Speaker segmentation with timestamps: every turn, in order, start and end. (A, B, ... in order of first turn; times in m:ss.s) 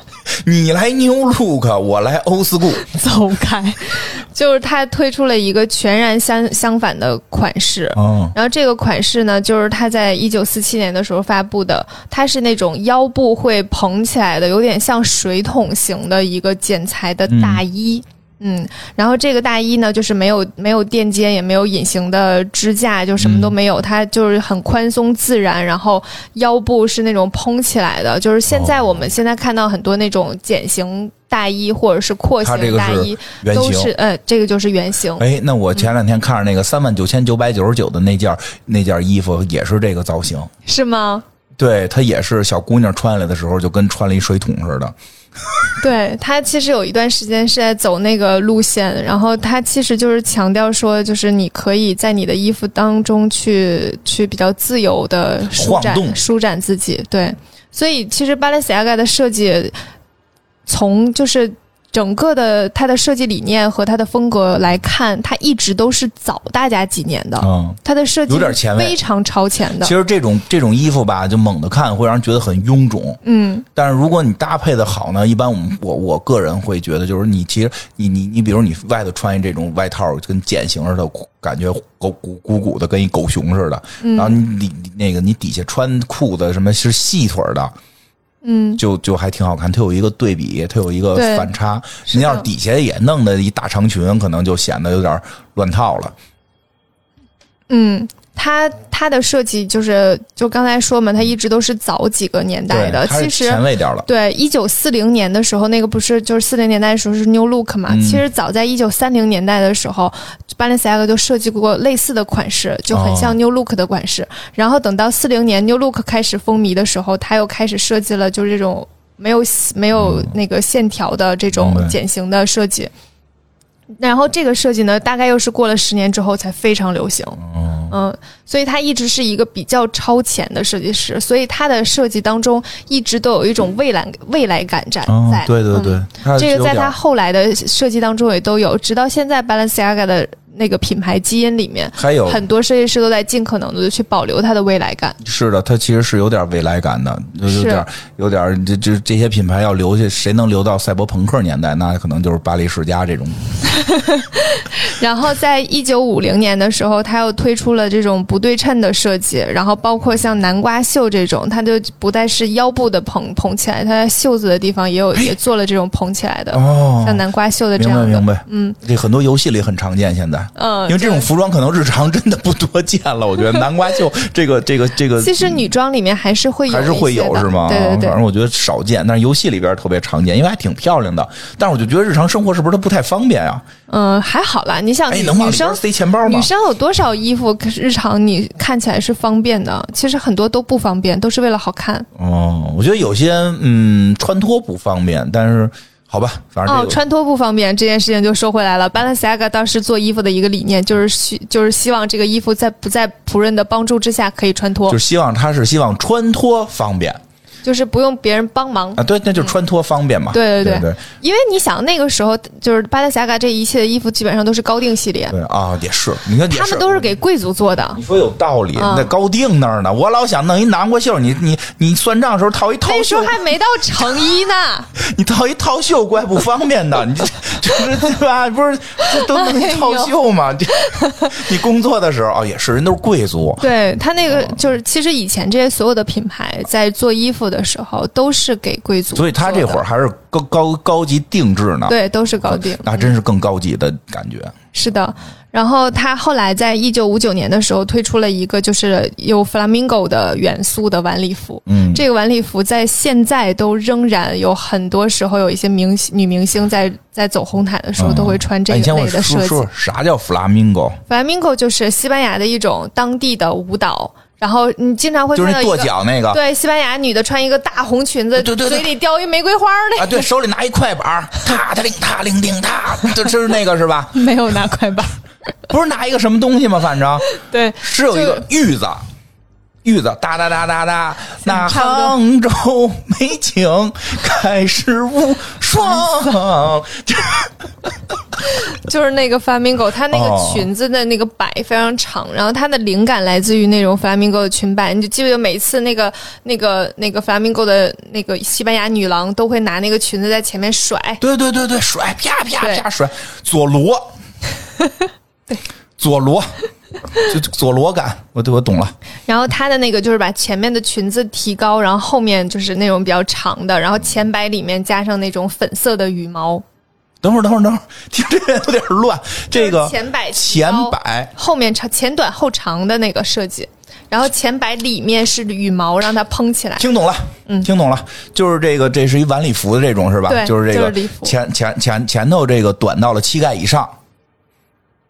0:00.4-0:02.8 A
0:02.8-0:35.2 B
0:07.9-0:08.3 A
0:17.3-0:17.6 A
0:23.2-0:23.5 A
0:28.5-0:28.8 A
0:32.4-0:33.9 A
0:35.2-0:40.5 A
0:40.6-0:41.2 B
0:41.6-0:44.9 A
0:45.8-0:59.7 B
0:55.5-0:56.2 A
1:00.7-1:09.9 B
1:07.4-1:09.0 A
1:09.8-1:13.2 A
1:13.2-1:13.6 B
1:13.7-1:27.7 A
1:24.0-1:24.4 B
1:28.4-1:28.8 B
1:28.8-1:36.1 A
1:31.1-1:31.5 B
1:32.1-1:32.5 B
1:37.7-2:02.9 B
1:42.7-1:44.1 A
1:47.9-1:48.2 A
1:52.9-1:53.4 A
2:00.0-2:00.3 A
2:01.5-2:02.0 A
2:04.0-2:25.2 B
2:07.4-2:07.9 A
2:15.1-2:16.9 A
2:22.0-2:22.4 A
2:25.2-2:33.4 A
2:27.4-2:27.8 B
2:33.6-2:48.8 B
2:46.5-2:47.2 A
2:47.8-2:55.6 A
2:50.6-2:51.3 B
2:55.2-2:58.2 B
2:56.7-3:03.6 A
3:03.9-3:12.1 B
3:05.1-3:06.5 A
3:12.2-3:17.0 A
3:16.6-3:25.0 B
3:24.9-3:27.2 A
3:27.6-3:29.0 B
3:29.0-3:31.0 A
3:30.3-3:35.3 B
3:35.3-3:37.1 A
3:36.4-3:38.0 B
3:37.9-3:43.4 A
3:38.8-3:39.1 B
3:42.8-3:44.9 B
3:45.0-3:53.6 A
3:49.1-3:50.1 B
3:50.7-3:51.4 B
3:53.6-3:59.8 B
3:54.3-3:54.6 A
3:59.1-4:04.5 A
4:01.9-4:03.1 B
4:04.7-4:19.6 B
4:11.7-4:12.0 A
4:18.0-4:21.0 A
4:21.1-4:30.3 B
4:25.3-4:26.4 A
4:28.4-4:28.9 A
4:30.0-4:34.2 A
4:34.1-4:35.2 B
4:35.7-4:39.0 A
4:37.3-4:38.4 B
4:39.8-4:47.9 A
4:41.4-4:42.2 B
4:48.4-5:01.2 B
4:50.1-4:50.7 A
5:01.2-5:04.1 A
5:04.8-5:05.6 B
5:06.0-5:06.5 A
5:07.2-5:08.9 A
5:09.3-5:16.6 B
5:17.2-5:21.3 A
5:19.5-5:26.8 B
5:26.8-5:33.9 A
5:30.3-5:31.4 B